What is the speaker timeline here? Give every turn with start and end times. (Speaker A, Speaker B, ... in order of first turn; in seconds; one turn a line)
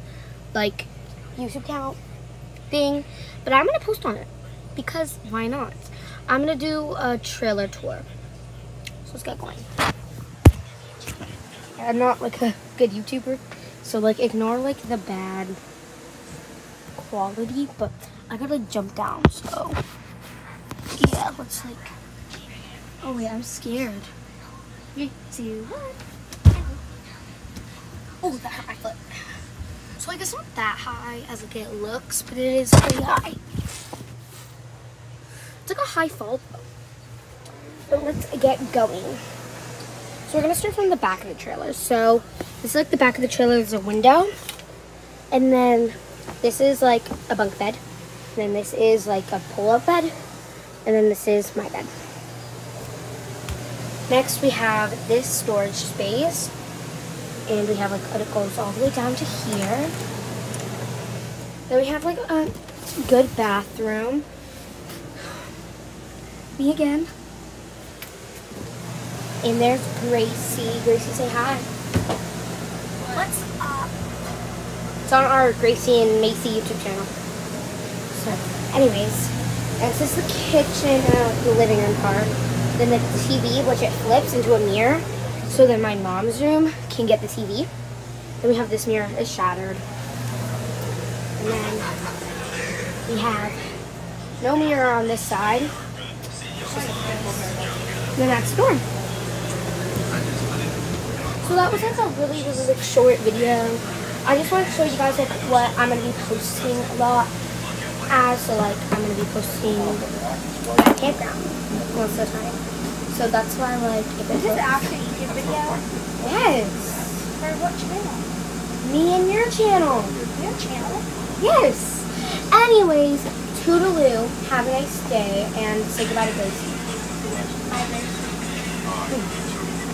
Speaker A: 0.5-2.0
Speaker A: 2.7-8.1
Speaker A: 9.0-9.7
Speaker A: 11.8-15.6
Speaker A: 16.9-19.8
Speaker A: 21.0-21.9
Speaker A: 23.0-24.1
Speaker A: 24.9-26.0
Speaker A: 26.5-26.8
Speaker A: 28.2-29.0
Speaker A: 30.0-33.4
Speaker A: 35.6-36.6
Speaker A: 37.9-39.2
Speaker A: 40.2-44.3
Speaker A: 45.3-47.8
Speaker A: 48.3-50.1
Speaker A: 50.9-51.9
Speaker A: 54.1-56.5
Speaker A: 57.5-59.9
Speaker A: 61.7-64.2
Speaker A: 66.5-67.1
Speaker A: 69.4-71.7
Speaker A: 73.1-73.9
Speaker A: 75.0-77.1
Speaker A: 78.1-87.7
Speaker A: 88.4-89.8
Speaker A: 91.4-91.9
Speaker A: 93.1-93.6
Speaker A: 94.4-95.7
Speaker B: 96.7-97.5
Speaker A: 98.2-98.8
Speaker A: 101.4-107.3
Speaker A: 108.1-110.1
Speaker A: 110.8-112.6
Speaker A: 113.1-114.8
Speaker B: 114.3-115.8
Speaker A: 116.2-117.2
Speaker B: 117.3-118.2
Speaker A: 118.8-120.2
Speaker B: 120.3-121.0
Speaker A: 121.4-126.8
Speaker B: 127.7-128.2